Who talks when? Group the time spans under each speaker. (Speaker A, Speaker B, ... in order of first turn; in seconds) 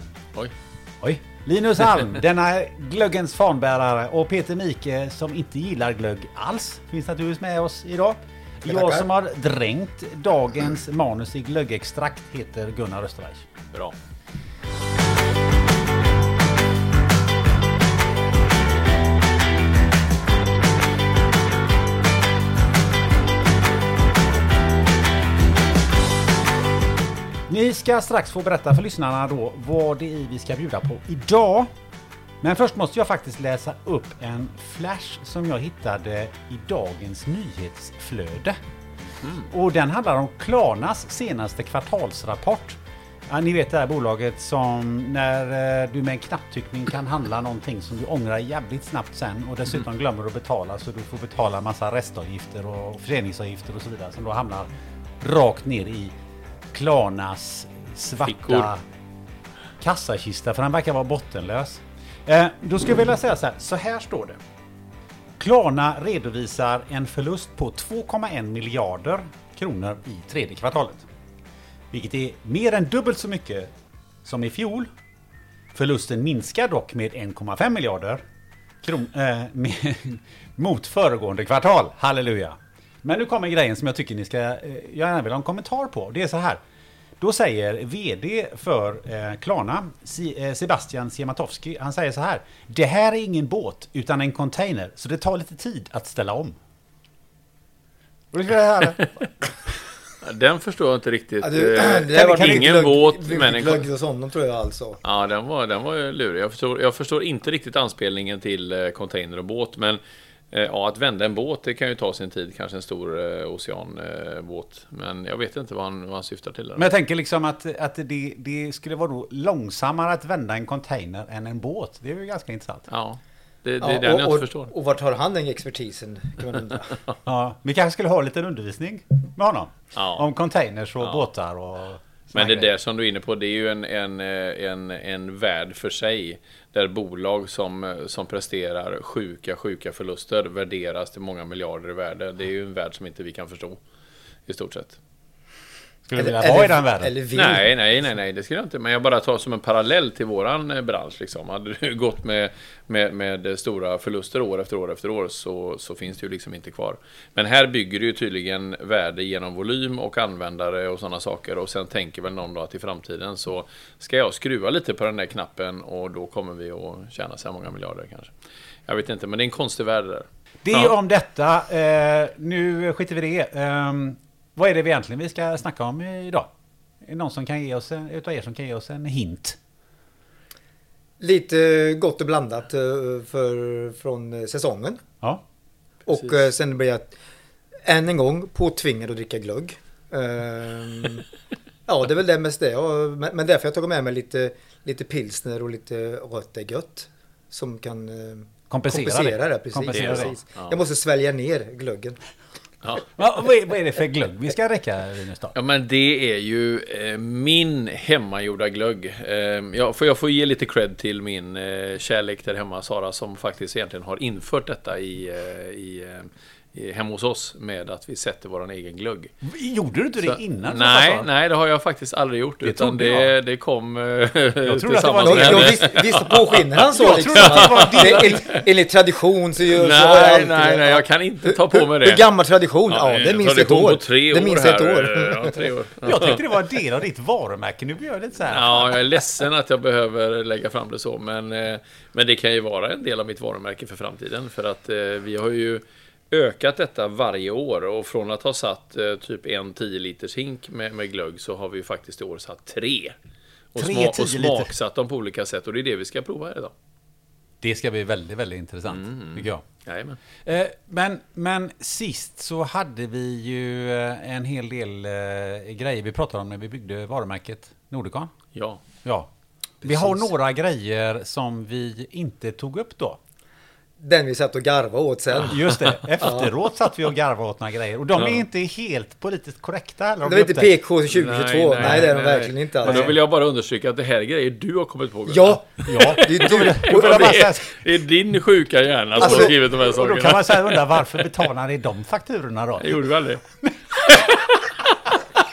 Speaker A: 1.0-13.5, 27.5-31.7, 32.4-38.6, 39.5-54.7, 55.2-56.1, 56.7-58.8, 59.8-64.4, 65.4-71.0, 71.9-73.7, 74.2-74.9, 75.7-78.2, 78.8-86.6, 87.2-96.6, 98.3-99.0, 102.1-102.7, 116.8-122.9, 127.2-132.7, 146.1-147.1, 170.6-176.5, 177.0-179.6, 198.7-200.3, 203.0-205.5, 219.4-221.3, 222.6-223.3, 224.6-225.9, 226.8-228.4, 236.0-239.0, 253.8-254.7, 257.6-259.6, 260.4-268.3, 269.0-269.3, 269.8-273.2, 275.4-280.8, 281.8-282.2, 282.8-283.1, 285.9-287.8, 289.2-293.0
Speaker B: 8.7-9.1, 101.4-105.0, 123.8-127.0, 146.2-147.7, 181.2-185.0, 186.1-187.1, 187.8-191.2, 191.8-202.2, 225.2-235.7, 269.8-270.3, 274.0-276.5, 280.2-283.1, 285.3-287.3, 289.2-289.5
Speaker C: 58.2-58.7, 100.2-103.8, 105.0-110.0, 110.5-116.8, 122.9-124.7, 129.9-130.2, 132.3-143.8, 144.5-145.0, 147.3-168.3, 168.9-170.9, 199.9-200.7, 205.5-219.3, 220.2-228.6, 229.7-232.3, 232.9-236.4, 238.5-253.2, 253.7-256.7, 258.9-260.2, 268.5-268.8, 278.2-278.4, 281.1-291.2, 292.8-293.4, 293.9-294.6